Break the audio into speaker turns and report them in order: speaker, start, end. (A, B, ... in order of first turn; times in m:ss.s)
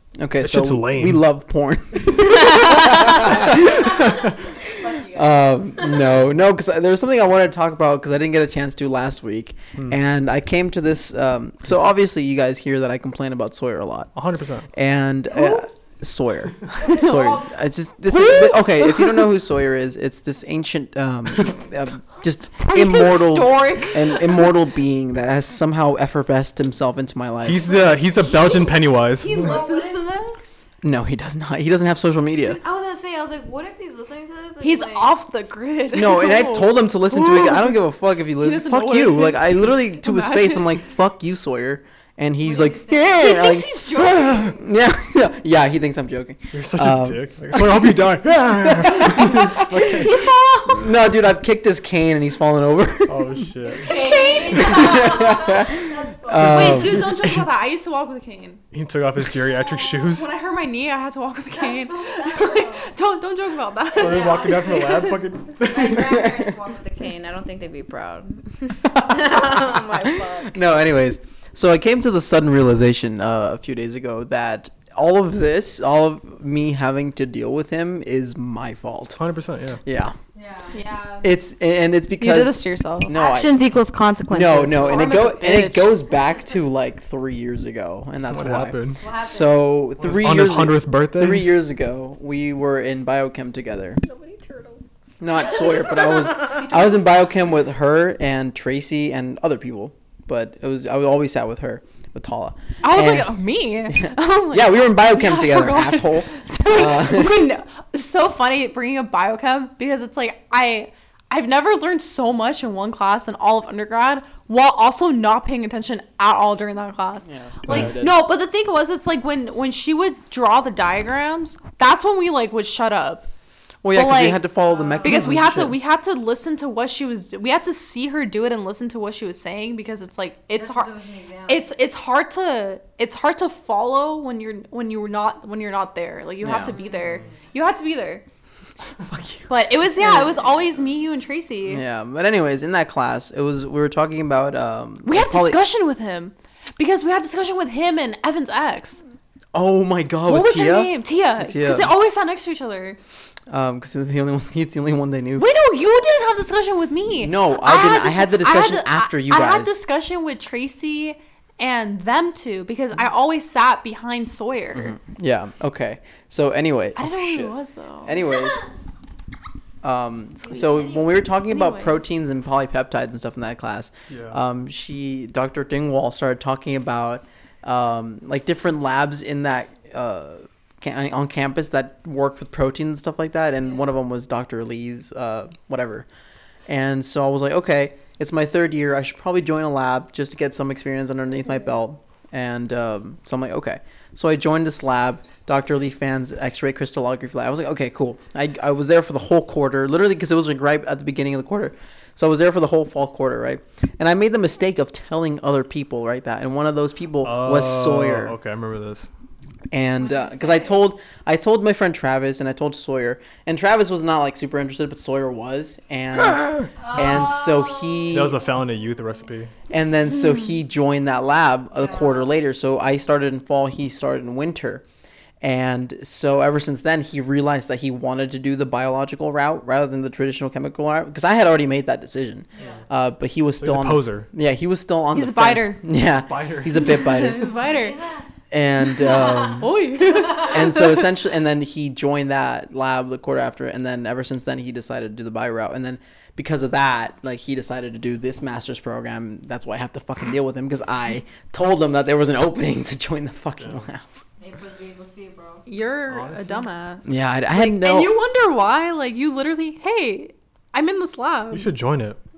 0:00.2-0:04.1 A
0:00.4-0:01.2 B
0:02.0-0:06.1 C
0:03.8-0:04.3 B
0:05.1-0:14.1 A
0:14.1-0:14.7 B
0:14.7-0:27.6 A
0:16.8-0:17.5 C
0:18.2-0:18.9 D
0:22.6-0:24.4 D
0:27.4-0:29.6 B
0:27.6-0:30.0 C
0:28.3-0:28.6 D
0:29.2-0:30.4 D
0:30.8-0:32.6 A
0:32.4-0:35.1 C
0:34.6-0:37.8 D
0:35.9-0:47.8 A
0:38.4-0:40.7 D
0:42.4-0:43.4 C
0:43.1-0:44.6 D
0:46.5-0:50.2 B
0:48.8-0:50.0 A
0:48.9-0:50.9 D
0:50.6-0:53.4 A
0:53.1-0:54.3 B
0:53.7-0:56.8 C
0:53.7-0:55.1 D
0:54.5-0:57.1 A
0:56.4-0:58.6 D
0:56.4-0:57.5 B
0:58.7-1:00.3 B
0:59.4-1:00.1 C
1:00.1-1:04.4 D
1:01.5-1:02.9 C
1:03.9-1:10.6 C
1:03.9-1:06.2 B
1:08.8-1:19.2 A
1:19.2-1:19.8 B
1:19.8-1:20.1 A
1:20.3-1:20.7 C
1:20.7-1:21.3 D
1:21.2-1:23.6 A
1:22.2-1:23.1 D
1:23.1-1:25.0 C
1:24.3-1:34.0 A
1:24.6-1:25.9 D
1:28.3-1:29.0 B
1:28.9-1:29.7 C
1:30.0-1:31.6 B
1:34.0-1:34.8 C
1:35.2-1:47.6 A
1:35.4-1:36.8 C
1:36.3-1:37.1 D
1:42.8-2:03.3 D
1:57.2-1:58.3 A
2:03.8-2:05.8 A
2:03.9-2:04.4 D
2:04.7-2:05.3 C
2:05.0-2:10.9 D
2:10.5-2:11.7 C
2:11.5-2:18.2 D
2:16.4-2:16.8 A
2:16.6-2:17.4 C
2:19.0-2:20.5 A
2:19.5-2:21.8 D
2:21.6-2:25.6 A
2:25.0-2:29.0 D
2:29.5-2:31.9 A
2:30.3-2:33.0 D
2:33.5-2:35.5 A
2:35.4-2:45.0 D
2:37.2-2:39.8 A
2:44.8-2:48.7 A
2:47.0-2:48.2 D
2:48.3-2:48.7 C
2:49.8-3:06.1 A
2:50.4-2:51.2 C
2:51.4-2:52.0 D
2:54.1-2:54.4 B
3:06.7-3:28.4 A
3:27.2-3:29.1 B
3:29.7-3:38.4 A
3:30.0-3:30.8 C
3:36.8-3:38.3 C
3:38.1-3:39.5 B
3:39.7-3:44.8 A
3:41.7-3:42.3 C
3:45.4-3:57.5 A
3:52.5-3:52.8 C
3:53.6-3:54.3 B
3:55.1-3:55.8 D
3:56.3-3:57.3 B
3:56.8-3:58.0 D
3:57.6-3:58.3 C
3:58.5-3:59.7 A
3:59.0-4:00.5 C
3:59.1-4:01.0 D
4:00.4-4:14.0 A
4:14.4-4:15.6 C
4:15.6-4:21.7 D
4:16.1-4:16.7 B
4:17.0-4:18.2 A
4:21.5-4:22.2 B